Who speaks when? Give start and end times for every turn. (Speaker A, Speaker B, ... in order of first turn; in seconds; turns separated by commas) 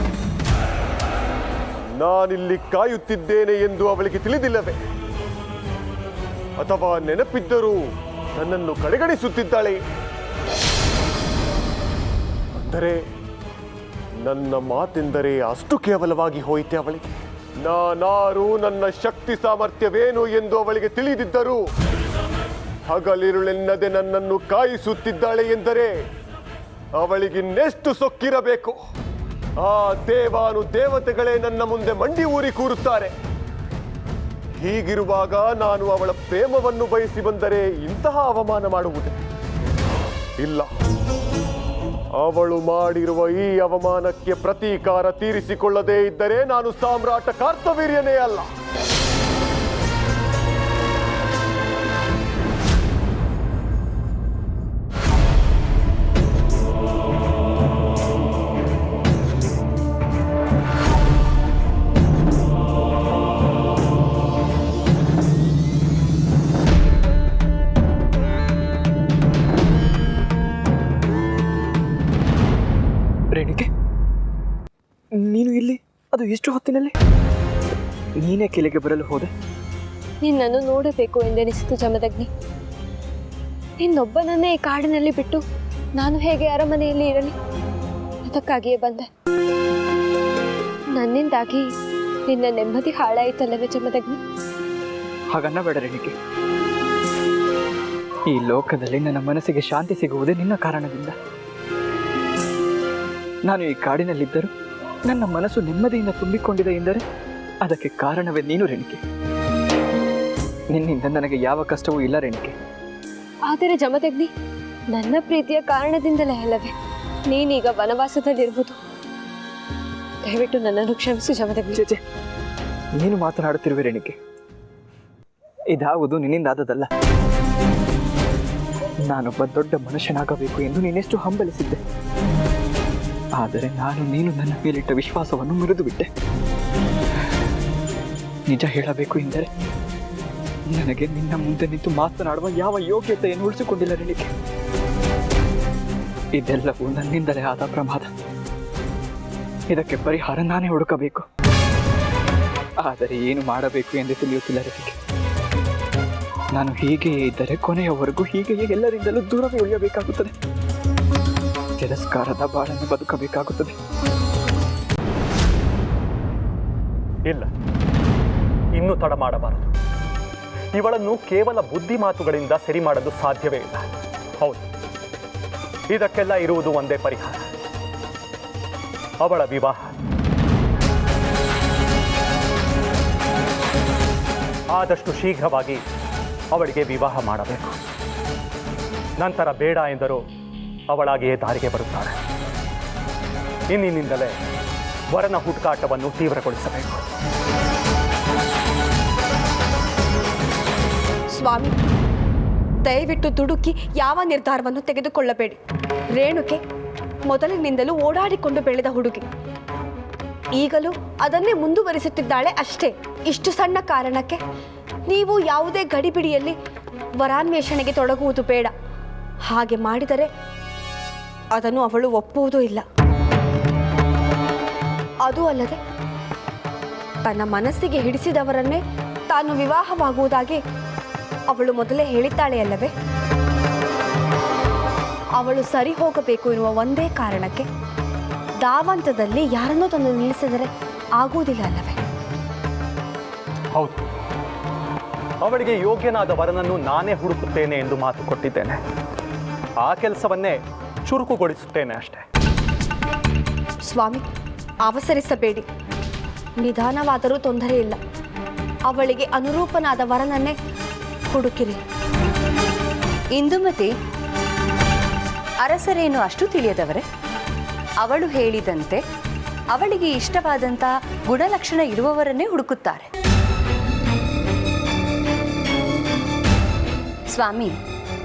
Speaker A: 2.0-4.8, Speaker A: 6.6-7.8, Speaker A: 8.3-9.8, Speaker A: 12.6-13.0, Speaker A: 14.2-21.6, Speaker A: 22.9-25.9, Speaker A: 27.0-28.8, Speaker A: 29.6-33.1, Speaker A: 34.6-39.2, Speaker A: 40.4-40.7, Speaker A: 42.2-48.5, Speaker B: 73.3-73.7, Speaker B: 75.1-76.9, Speaker B: 78.2-79.3, Speaker C: 80.2-82.3, Speaker C: 83.8-85.4, Speaker C: 86.0-87.3, Speaker C: 88.2-89.0, Speaker C: 91.0-91.6, Speaker C: 92.3-94.2, Speaker B: 95.3-96.1, Speaker B: 98.3-101.1, Speaker B: 103.5-104.5, Speaker B: 105.0-107.0, Speaker B: 107.6-109.0, Speaker B: 110.7-112.5, Speaker C: 113.5-114.3, Speaker C: 114.9-116.7, Speaker C: 117.3-118.8, Speaker C: 120.2-121.8, Speaker B: 121.7-122.0, Speaker B: 123.0-124.2, Speaker B: 125.7-126.9, Speaker B: 129.1-131.8, Speaker B: 133.3-136.1, Speaker B: 138.5-139.5, Speaker B: 140.7-144.3, Speaker B: 146.3-148.1, Speaker B: 149.7-151.2, Speaker B: 152.8-155.0, Speaker B: 156.6-160.3, Speaker B: 161.8-163.7, Speaker D: 168.7-169.7, Speaker D: 170.7-173.9, Speaker D: 175.9-177.4, Speaker D: 179.2-179.9, Speaker D: 184.7-185.8, Speaker D: 186.5-187.8, Speaker D: 189.2-190.2, Speaker D: 190.9-192.1, Speaker D: 193.7-194.3, Speaker D: 195.1-197.0, Speaker E: 201.3-201.7, Speaker E: 202.8-205.6, Speaker E: 206.1-206.6, Speaker E: 207.3-209.2, Speaker E: 210.6-214.4, Speaker E: 215.1-216.6, Speaker E: 217.2-218.7, Speaker E: 219.5-220.3, Speaker E: 221.6-222.8, Speaker E: 225.2-225.8, Speaker E: 227.2-230.6, Speaker E: 231.5-232.9, Speaker E: 235.4-237.7, Speaker E: 238.6-242.0, Speaker D: 243.7-244.0, Speaker D: 245.4-248.8, Speaker D: 249.8-252.2, Speaker E: 253.8-254.2, Speaker E: 254.8-255.7, Speaker E: 256.6-258.0, Speaker E: 258.9-260.5, Speaker E: 261.3-261.8, Speaker F: 263.3-263.9, Speaker F: 265.6-267.0, Speaker F: 268.0-269.0, Speaker F: 269.7-273.0, Speaker F: 277.3-277.8